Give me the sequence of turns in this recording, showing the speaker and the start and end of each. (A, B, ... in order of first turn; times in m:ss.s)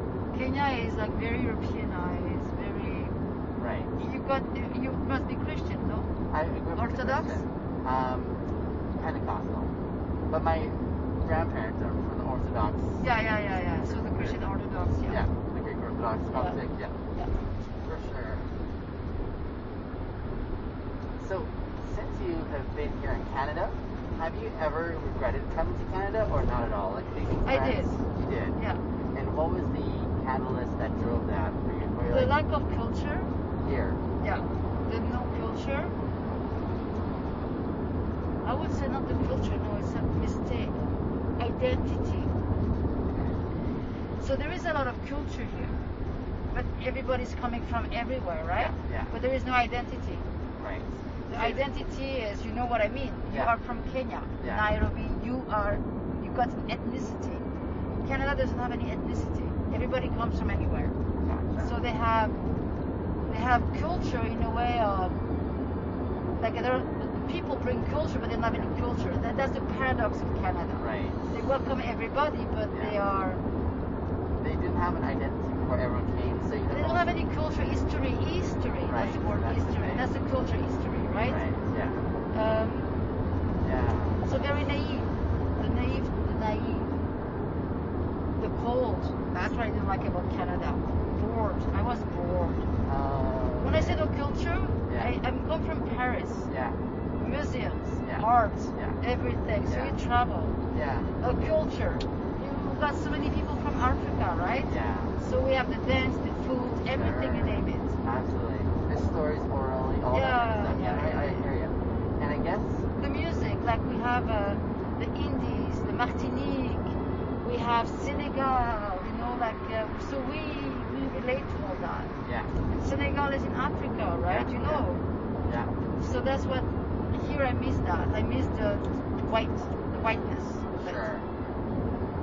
0:00.3-0:03.2 A
0:03.6-0:03.9 B
0:04.0-0:06.1 A
0:06.3-0:09.7 B
0:06.8-0:07.4 A
0:10.3-0:13.0 B
0:13.0-0:15.2 A
0:13.7-0:14.4 B
0:15.0-0:17.0 B
0:16.3-0:16.6 A
0:17.8-0:18.5 B
0:21.2-0:28.6 B
0:27.4-0:28.0 A
0:29.1-0:32.4 B
0:32.1-0:33.3 A
0:33.6-0:34.0 B
0:34.2-0:35.9 A
0:38.4-0:40.8 A
0:41.4-0:42.3 A
0:43.1-0:43.4 B
0:44.2-0:45.8 A
0:46.5-0:50.3 A
0:48.6-0:49.1 B
0:50.6-0:51.6 B
0:51.3-0:57.5 A
0:53.3-0:53.5 B
0:54.4-0:54.7 B
0:58.0-1:01.0 A
1:01.2-1:01.8 B
1:01.6-1:02.4 A
1:03.2-1:05.2 A
1:06.4-1:13.4 A
1:10.8-1:11.2 B
1:12.7-1:13.0 B
1:14.4-1:17.2 B
1:16.7-1:21.4 A
1:18.8-1:20.1 B
1:21.2-1:22.0 B
1:22.3-1:23.1 A
1:23.6-1:24.4 B
1:24.2-1:26.9 A
1:28.4-1:32.7 A
1:32.8-1:34.1 B
1:33.6-1:36.5 A
1:34.8-1:35.1 B
1:36.5-1:36.8 B
1:37.2-1:40.6 A
1:38.0-1:39.0 B
1:39.6-1:40.0 B
1:40.7-1:41.1 B
1:41.2-1:48.0 A
1:44.6-1:45.2 B
1:46.9-1:52.9 B
1:50.1-1:51.5 A
1:52.9-2:02.2 A
2:02.2-2:02.6 B
2:02.7-2:05.0 A
2:04.2-2:04.8 B
2:05.4-2:05.7 B
2:05.9-2:11.1 A
2:10.7-2:11.3 B